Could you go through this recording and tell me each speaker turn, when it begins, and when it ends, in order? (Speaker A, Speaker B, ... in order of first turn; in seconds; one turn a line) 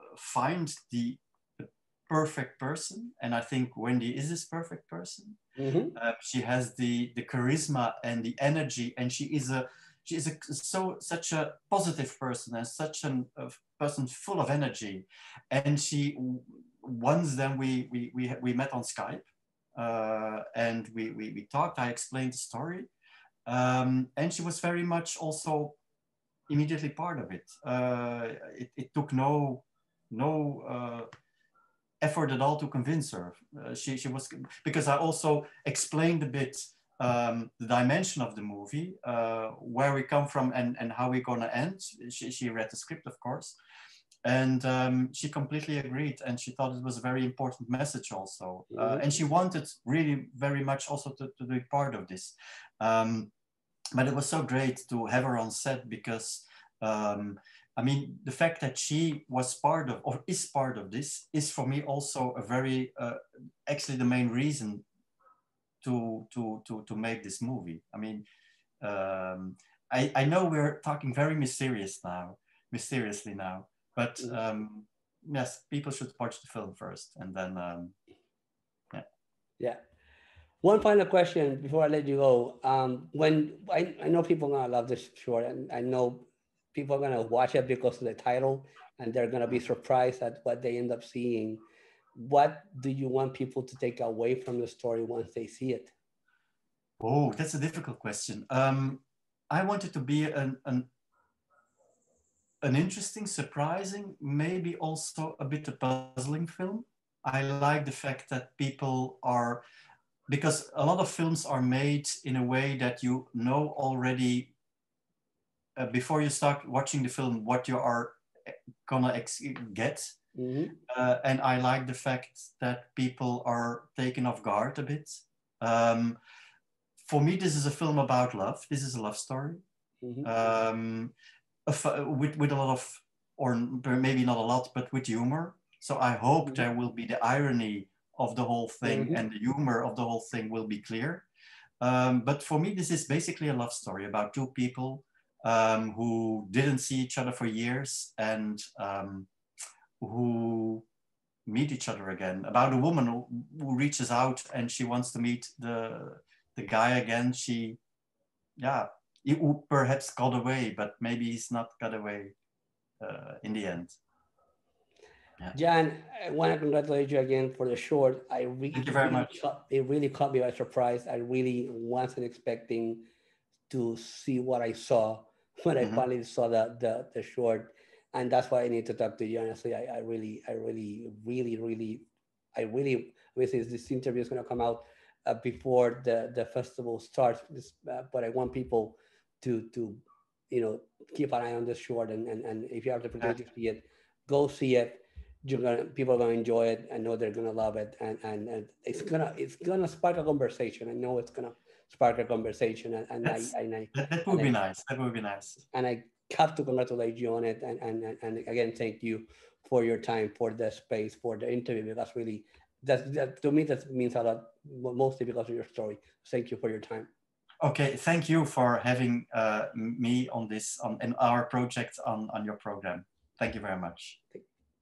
Speaker A: 0.1-5.4
Speaker B: 5.6-6.0
Speaker A: 5.9-19.2
Speaker A: 19.8-22.9
Speaker A: 23.5-25.8
Speaker A: 26.5-31.1
Speaker A: 32.0-43.5
Speaker A: 44.2-53.3
Speaker B: 48.7-49.2
Speaker A: 54.0-64.8
Speaker A: 65.8-68.2
Speaker A: 68.8-77.9
Speaker B: 80.6-91.6
Speaker B: 92.1-95.9
Speaker A: 97.0-100.9
Speaker A: 102.6-109.6
Speaker A: 110.3-114.5
Speaker A: 115.8-118.2
Speaker A: 118.8-120.1
Speaker B: 120.3-120.8
Speaker A: 120.9-126.2
Speaker A: 127.0-129.6
Speaker B: 130.0-130.3
Speaker A: 130.2-131.1
Speaker A: 131.7-141.2
Speaker B: 138.8-139.2
Speaker A: 141.8-149.3
Speaker A: 150.0-150.8
Speaker A: 151.4-157.8
Speaker A: 158.6-162.3
Speaker A: 163.0-163.9
Speaker B: 165.5-173.0
Speaker A: 168.7-169.4
Speaker B: 173.7-204.5
Speaker A: 203.2-205.6
Speaker B: 205.7-217.1
Speaker A: 217.6-224.2